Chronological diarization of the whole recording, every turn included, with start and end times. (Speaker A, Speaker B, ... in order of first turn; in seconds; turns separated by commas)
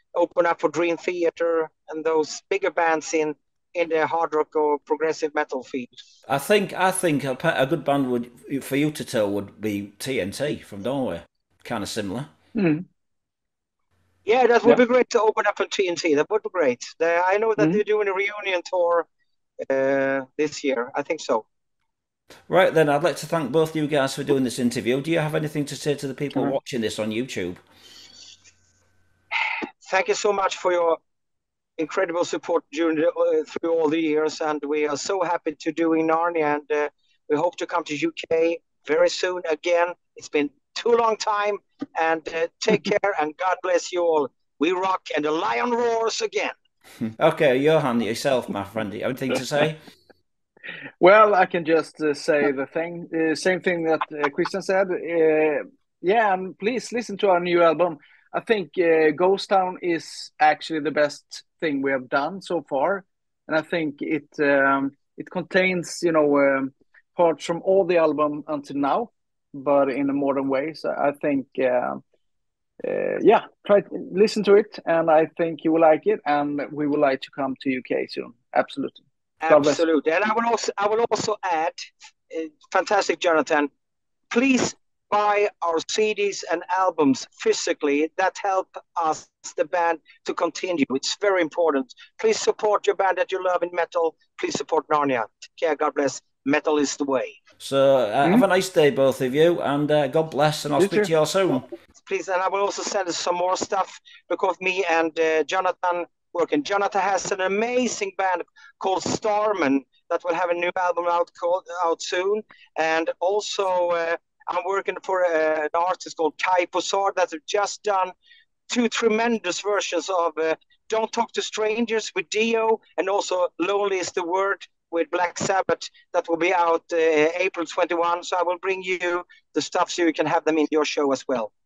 Speaker A: 0.1-6.0, Speaker B: 6.2-12.3, Speaker C: 12.5-12.8, Speaker A: 14.2-19.1, Speaker A: 19.6-21.4, Speaker B: 22.5-27.6, Speaker A: 29.8-31.0, Speaker A: 31.8-46.5, Speaker B: 47.0-49.8, Speaker C: 51.0-72.0, Speaker C: 72.8-79.8, Speaker A: 79.4-83.7, Speaker A: 84.3-97.4, Speaker B: 97.6-101.6, Speaker C: 100.8-101.1, Speaker A: 102.0-118.1, Speaker A: 118.7-131.5